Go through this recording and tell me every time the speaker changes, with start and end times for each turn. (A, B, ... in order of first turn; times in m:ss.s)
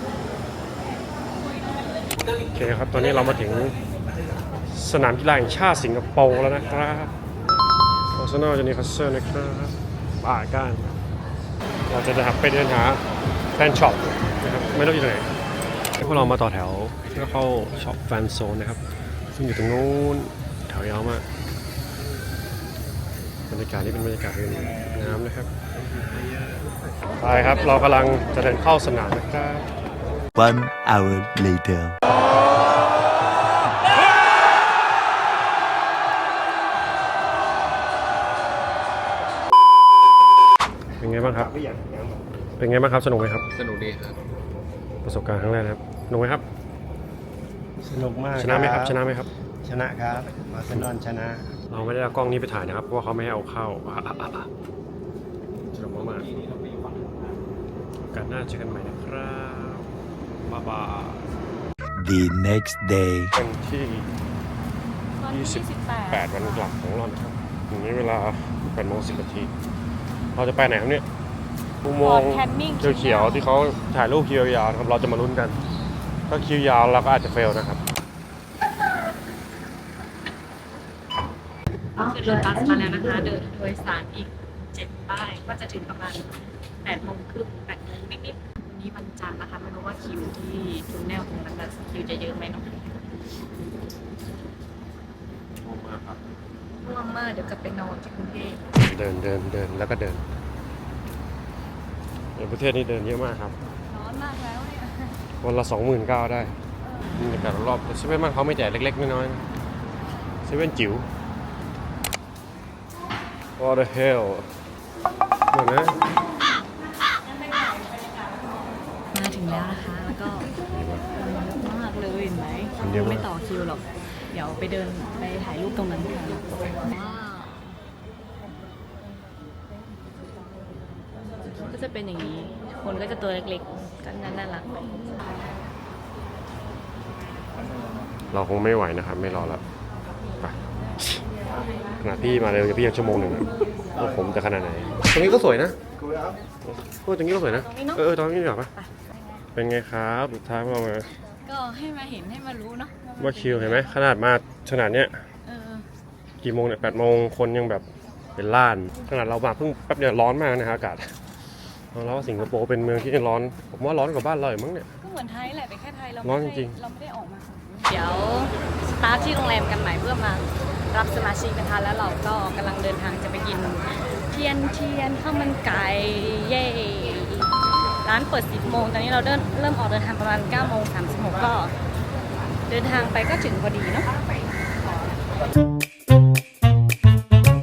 0:02.5-0:03.8 A
0:04.7-0:07.1 A
0:08.1-0:11.0 A
0:11.9-0:13.0 A
0:13.6-0:15.3 A
0:15.9-0:21.2 A
0:23.5-0:25.5 A
0:27.2-0:29.7 A
0:30.4-0:32.0 B
0:41.0-0:41.5 A
0:41.2-0:42.2 C
0:42.6-0:43.4 A
0:43.5-0:44.1 D
0:45.0-0:46.4 A
0:47.8-0:49.0 C
0:48.4-0:49.3 A
0:49.6-0:51.5 C
0:51.7-0:54.5 A
0:55.7-0:56.3 A
0:55.9-0:57.3 D
0:58.1-0:59.9 A
1:00.5-1:01.3 A
1:02.0-1:03.3 B
1:03.4-1:04.1 A
1:05.2-1:06.7 E
1:05.3-1:09.5 A
1:10.4-1:11.0 A
1:11.8-1:15.6 A
1:12.0-1:13.5 E
1:16.3-1:17.8 A
1:22.0-1:32.8 E
1:35.6-1:36.2 A
1:36.8-1:38.6 E
1:38.8-1:40.2 A
1:42.4-1:43.5 A
1:43.9-1:45.2 E
1:45.4-1:46.6 A
1:47.2-1:49.4 A
1:50.4-1:51.0 A
1:53.6-1:54.5 A
1:55.5-1:56.0 A
1:59.1-2:00.5 E
2:00.7-2:01.1 A
2:01.2-2:07.8 E
2:02.8-2:03.3 A
2:11.5-2:15.1 E
2:18.3-2:19.6 A
2:20.4-2:21.2 A
2:22.0-2:25.8 A
2:26.0-2:26.3 C
2:26.6-2:28.7 A
2:27.4-2:28.1 E
2:28.7-2:29.4 E
2:29.6-2:31.1 A
2:31.5-2:33.9 E
2:33.2-2:35.2 A
2:35.5-2:35.8 E
2:36.4-2:37.8 A
2:38.4-2:41.1 A
2:41.9-2:44.9 A
2:45.0-2:57.5 E
2:46.2-2:46.8 A
2:58.0-3:01.7 E
3:02.7-3:04.1 E